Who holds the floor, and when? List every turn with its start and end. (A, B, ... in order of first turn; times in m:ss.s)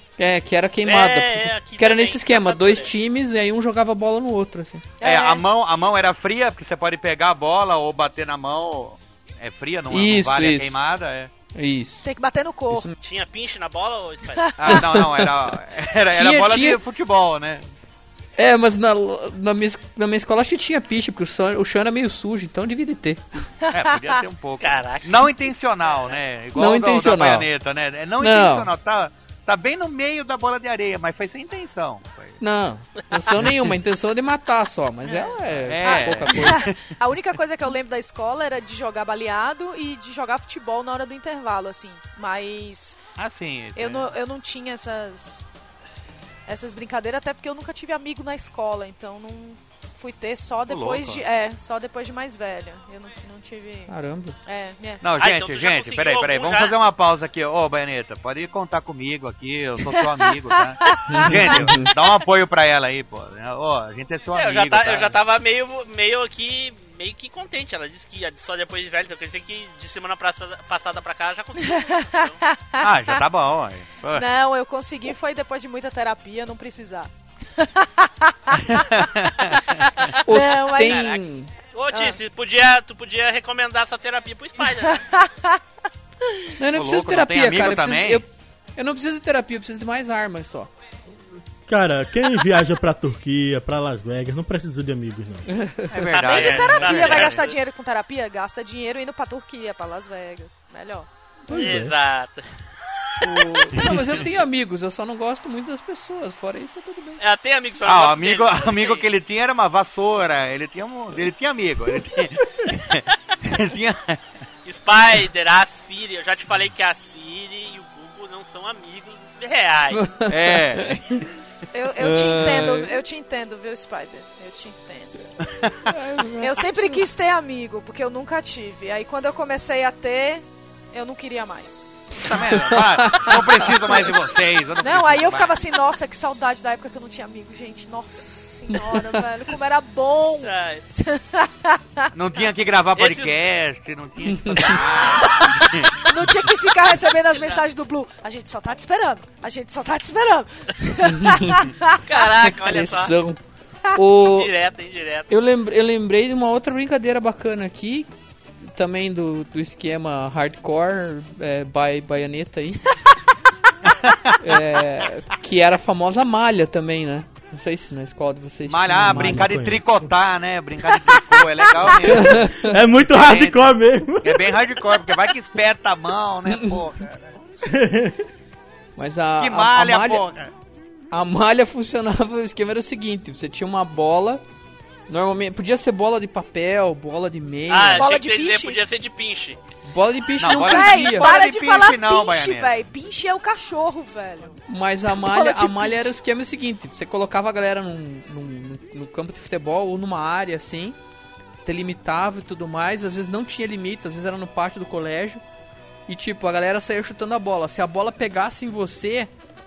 0:00.2-0:04.9 A
0:00.8-0:02.9 B
0:05.0-0:05.4 C
0:05.0-0:11.3 D
0:09.9-0:10.7 A
0:11.5-0:12.0 A
0:12.0-0:12.9 C
0:13.0-0:14.5 B
0:14.6-0:17.7 D
0:14.6-0:15.5 A
0:16.1-0:16.8 A
0:18.4-0:23.2 A
0:23.7-0:32.4 D
0:24.6-0:25.2 B
0:25.8-0:26.2 B
0:26.5-0:27.5 A
0:28.2-0:28.7 A
0:32.4-0:36.6 A
0:33.4-0:33.6 D
0:35.6-0:36.8 D
0:35.8-0:43.0 C
0:43.2-0:44.1 D
0:43.8-0:45.4 C
0:46.5-0:53.9 C
0:50.7-0:51.2 D
0:53.9-0:54.4 A
0:54.4-0:55.0 C
0:55.0-1:05.2 D
0:55.2-0:56.8 B
0:59.9-1:01.3 C
1:01.1-1:01.9 A
1:04.3-1:12.4 B
1:11.6-1:13.2 C
1:12.8-1:14.3 D
1:14.1-1:19.0 C
1:18.5-1:19.8 D
1:19.5-1:25.0 B
1:20.2-1:21.5 A
1:20.3-1:21.1 C
1:21.9-1:22.2 C
1:24.9-1:25.6 C
1:26.3-1:26.5 C
1:26.6-1:30.7 A
1:26.7-1:28.2 D
1:31.7-1:35.5 E
1:35.6-1:36.0 A
1:35.9-1:37.4 D
1:36.0-1:37.5 B
1:36.2-1:41.1 C
1:41.5-1:41.9 E
1:41.5-1:42.4 B
1:43.2-1:47.2 A
1:43.8-1:44.1 D
1:47.2-1:49.1 B
1:47.8-1:54.2 D
1:54.6-2:00.0 B
1:59.9-2:01.0 A
2:00.3-2:01.2 D
2:01.7-2:05.1 C
2:02.0-2:02.9 A
2:05.4-2:06.0 D
2:05.8-2:07.0 A
2:06.4-2:11.8 C
2:12.2-2:15.6 D
2:12.2-2:14.0 A
2:14.8-2:22.1 C
2:20.4-2:20.8 B
2:22.1-2:25.9 D
2:22.9-2:23.4 B
2:24.4-2:24.8 A
2:24.6-2:25.4 B
2:26.0-2:32.0 C
2:27.3-2:27.6 B
2:31.1-2:31.6 A
2:32.0-2:33.1 B
2:32.4-2:33.4 A
2:33.9-2:34.5 A
2:34.2-2:35.3 B
2:35.3-2:38.1 A
2:38.6-2:42.8 A
2:43.9-2:44.6 D
2:44.4-2:49.5 A
2:48.7-2:52.5 D
2:48.9-2:50.0 E
2:52.0-2:52.8 A
2:52.6-2:54.5 E
2:53.1-2:57.4 D
2:56.5-2:56.8 A
2:57.6-2:58.2 E
2:59.0-3:00.2 A
2:59.4-3:00.5 D
3:01.1-3:04.4 A
3:05.1-3:08.1 A
3:07.7-3:09.6 B
3:08.0-3:08.8 C
3:09.9-3:11.3 A
3:10.4-3:12.8 D
3:10.4-3:16.1 C
3:14.7-3:21.0 A
3:21.6-3:25.4 A
3:26.1-3:29.3 A